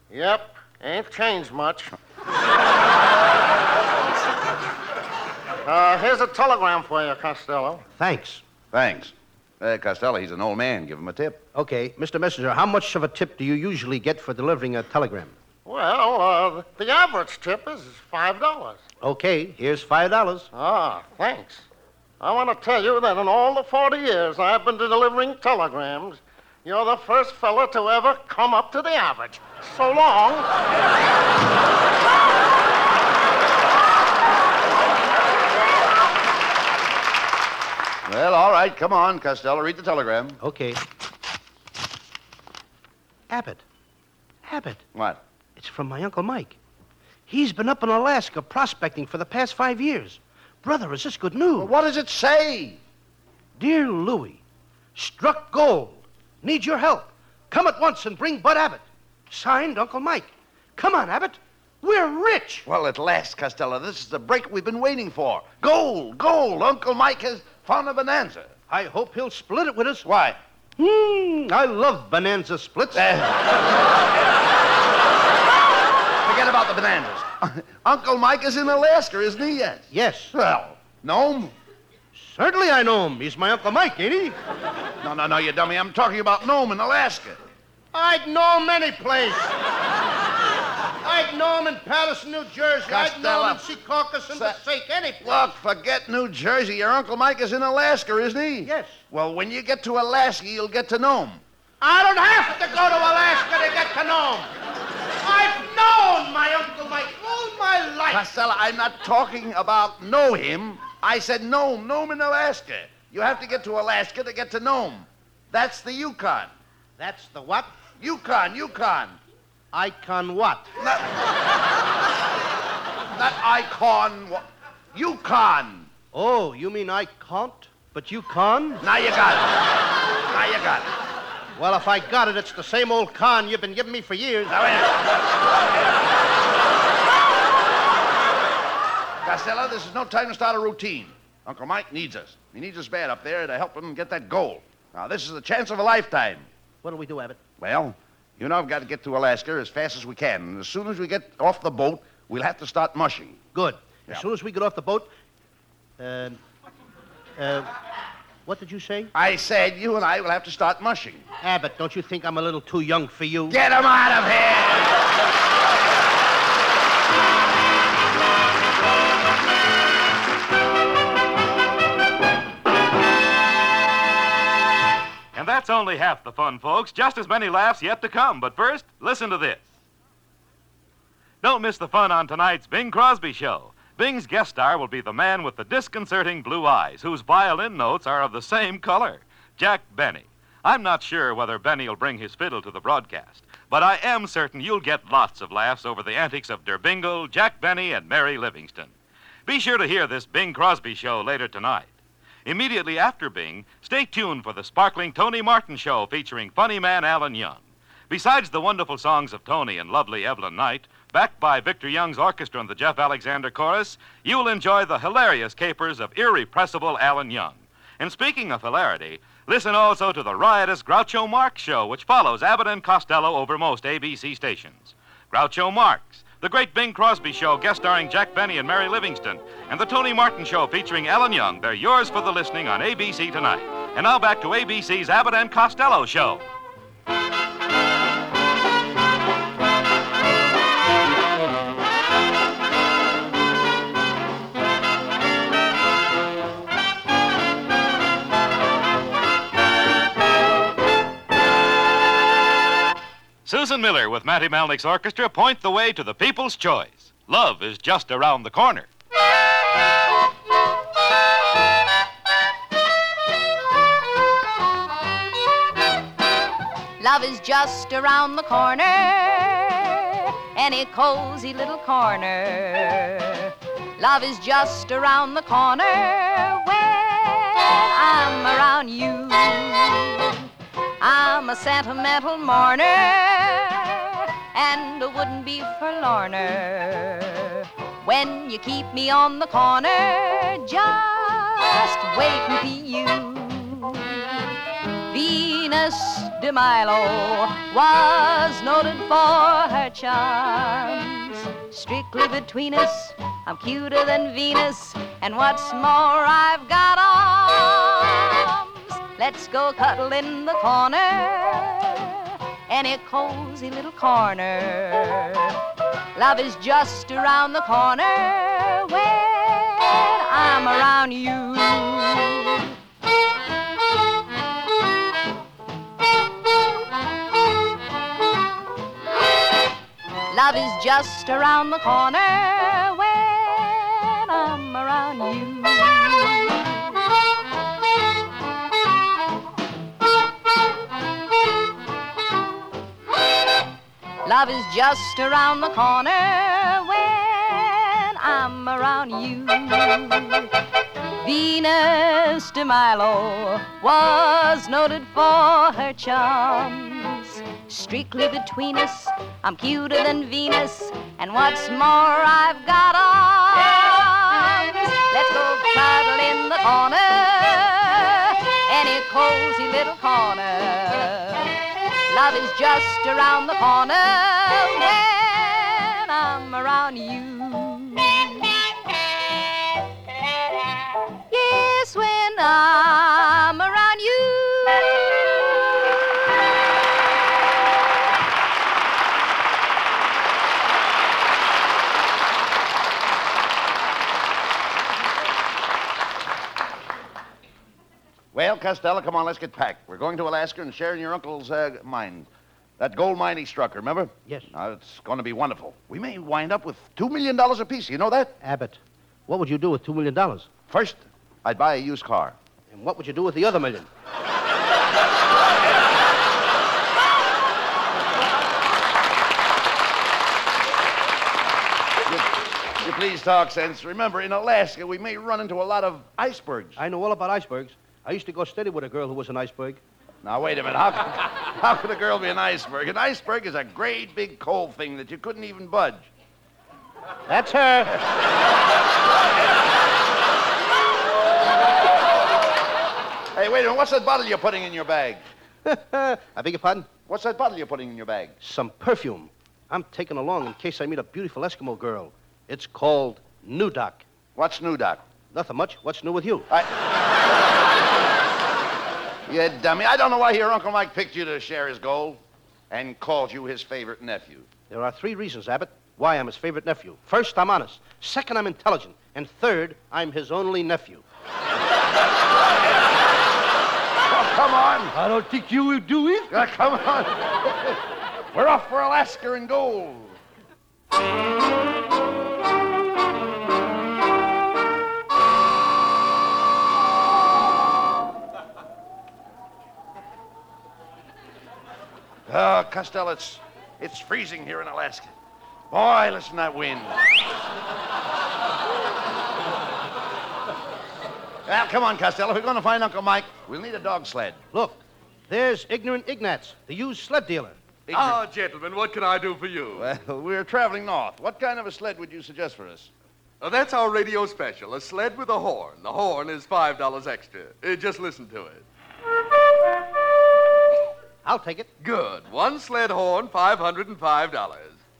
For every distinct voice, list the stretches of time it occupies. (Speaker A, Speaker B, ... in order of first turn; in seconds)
Speaker A: 0.1-2.0, 5.6-7.8, 15.6-18.8, 20.5-21.6, 22.2-30.5
Speaker B: 8.0-8.4, 11.5-15.3, 19.0-20.5, 40.4-40.8, 43.3-43.6, 44.4-44.8, 45.5-46.6, 47.3-51.7, 53.6-54.4, 54.9-62.6, 68.7-70.1, 70.8-73.1, 79.9-80.3, 82.1-84.4, 87.9-89.5, 91.0-95.5, 98.6-99.0, 101.8-104.5, 105.2-108.3, 117.0-117.7, 119.7-120.7, 126.1-128.8, 131.6-134.6, 146.8-147.4, 153.5-155.1, 156.0-156.4, 157.4-157.7, 158.4-159.1, 161.4-163.6, 408.4-410.5, 412.7-413.9, 426.8-429.8, 437.3-438.0, 445.6-446.9, 448.4-454.0, 455.3-456.5, 464.7-471.0, 474.9-476.5, 504.5-507.6, 521.2-521.7
Speaker C: 8.7-11.4, 38.0-40.4, 44.9-45.2, 51.6-52.8, 62.6-68.5, 70.0-70.4, 72.9-73.8, 76.2-81.5, 85.0-87.4, 92.8-93.6, 95.2-101.4, 108.1-116.5, 118.0-119.2, 120.8-121.1, 123.1-125.9, 128.8-129.6, 130.3-130.9, 134.5-134.9, 139.2-146.5, 147.6-153.4, 159.1-161.2, 163.5-165.0, 398.3-402.3, 402.8-408.3, 410.7-412.4, 422.0-426.8, 430.2-436.1, 443.3-445.2, 447.1-448.3, 454.4-455.0, 459.3-464.5, 474.1-474.9, 476.3-477.8, 478.3-480.2, 492.3-495.1, 495.7-497.0, 501.4-504.4, 507.9-508.2, 509.7-512.9
Speaker D: 175.3-179.6, 181.4-198.9, 199.4-201.9, 202.4-236.4, 253.4-258.9
Speaker E: 267.0-280.5, 281.0-294.4, 295.1-315.5, 316.1-322.7, 330.3-337.0, 344.2-350.5, 351.2-371.5, 372.1-378.6, 381.3-385.3
Speaker F: 507.9-509.9, 513.4-518.6, 521.8-524.8